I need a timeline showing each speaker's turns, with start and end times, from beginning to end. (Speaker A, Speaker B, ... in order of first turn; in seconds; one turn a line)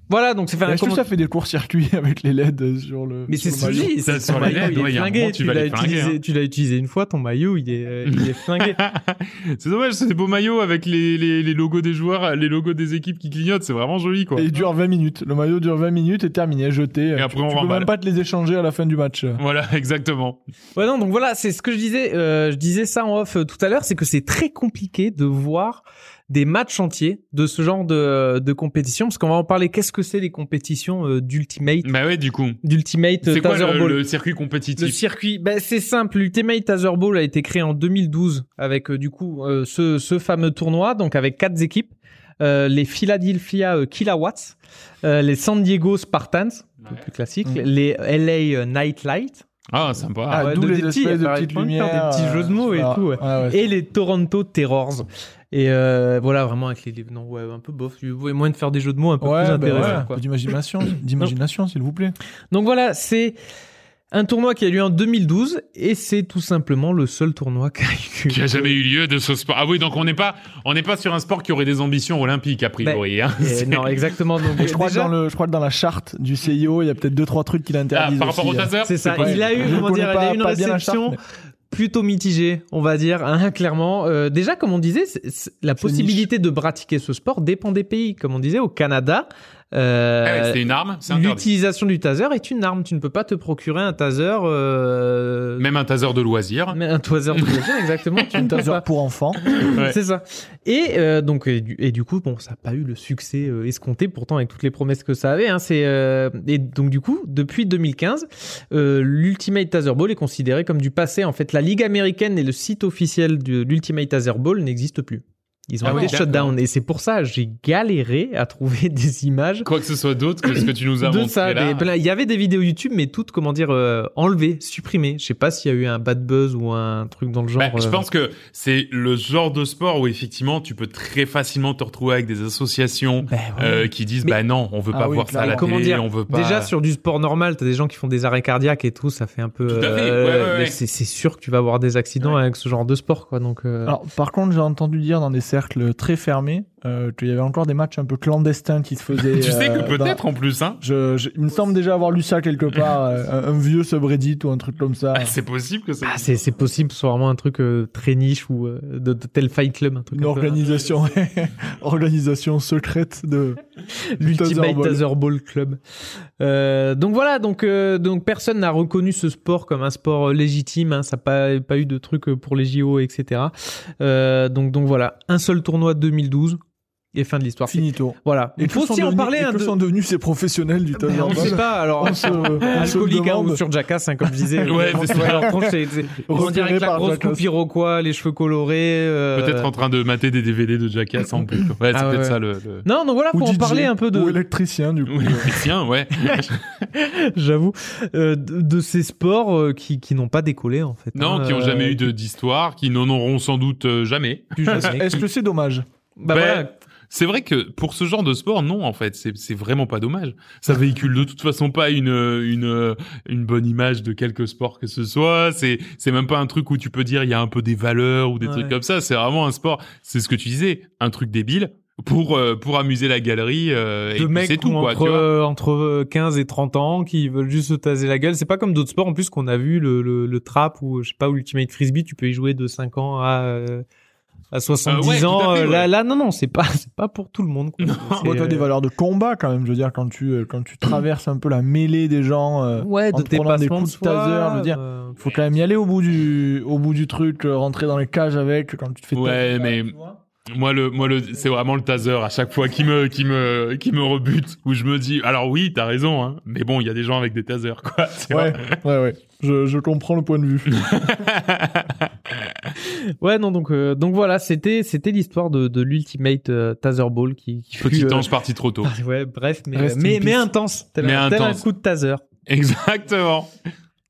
Speaker A: 0.1-1.1
Speaker B: 0.6-3.9
Speaker A: 3.3-8.8
Speaker C: 3.8-6.2
Speaker C: 8.1-14.5
Speaker B: 14.3-19.4
Speaker C: 17.1-17.9
Speaker C: 19.4-20.4
Speaker A: 20.7-31.9
Speaker C: 31.8-32.6
Speaker A: 32.6-34.0
Speaker C: 33.2-35.0
Speaker A: 34.8-49.5
Speaker C: 49.7-50.5
Speaker B: 50.3-53.6
Speaker A: 50.3-60.2
Speaker B: 59.2-62.1
Speaker C: 59.7-60.0
Speaker A: 62.5-63.4
Speaker A: 64.1-68.4
Speaker C: 68.3-74.0
Speaker A: 72.8-75.1
Speaker B: 74.6-81.2
Speaker C: 77.9-79.8
Speaker A: 78.8-81.2
Speaker A: 81.7-95.6
Speaker B: 85.8-86.3
Speaker C: 90.2-91.5
Speaker C: 95.6-96.8
Speaker A: 96.7-98.8
Speaker C: 97.3-97.6
Speaker B: 98.3-99.4
Speaker A: 99.4-119.7
Speaker C: 99.5-100.0
Speaker C: 115.8-116.5
Speaker B: 115.9-116.1
Speaker C: 119.6-121.9
Speaker A: 120.5-128.0
Speaker C: 127.6-136.7
Speaker A: 133.3-134.4
Speaker B: 134.9-135.7
Speaker A: 135.4-143.9
Speaker C: 139.7-140.8
Speaker B: 143.9-150.2
Speaker C: 149.2-150.8
Speaker B: 150.8-155.3
Speaker C: 155.1-156.4
Speaker A: 156.0-160.7
Speaker B: 160.1-163.6
Speaker A: 164.0-165.8
Speaker B: 164.2-165.0
Speaker A: 166.4-176.6
Speaker A: 177.1-179.7
Speaker B: 177.7-183.6
Speaker A: 181.0-189.7
Speaker C: 181.3-181.5
Speaker B: 184.2-187.4
Speaker C: 184.6-185.6
Speaker C: 189.4-192.9
Speaker A: 191.9-194.4
Speaker B: 193.3-195.5
Speaker C: 195.1-196.9
Speaker A: 196.9-202.1
Speaker C: 201.1-205.1
Speaker A: 204.6-205.2
Speaker B: 204.7-205.9
Speaker A: 206.2-206.7
Speaker C: 206.3-225.3
Speaker A: 218.4-218.7
Speaker A: 224.2-233.8
Speaker A: 234.5-238.6
Speaker C: 234.9-235.9
Speaker C: 237.8-238.3
Speaker B: 238.2-249.6
Speaker A: 242.8-245.4
Speaker C: 249.1-258.8
Speaker B: 258.3-260.9
Speaker C: 260.7-262.7
Speaker A: 262.8-268.3
Speaker C: 267.8-268.9
Speaker A: 268.8-272.2
Speaker B: 269.7-270.5
Speaker C: 271.0-271.6
Speaker C: 272.5-273.5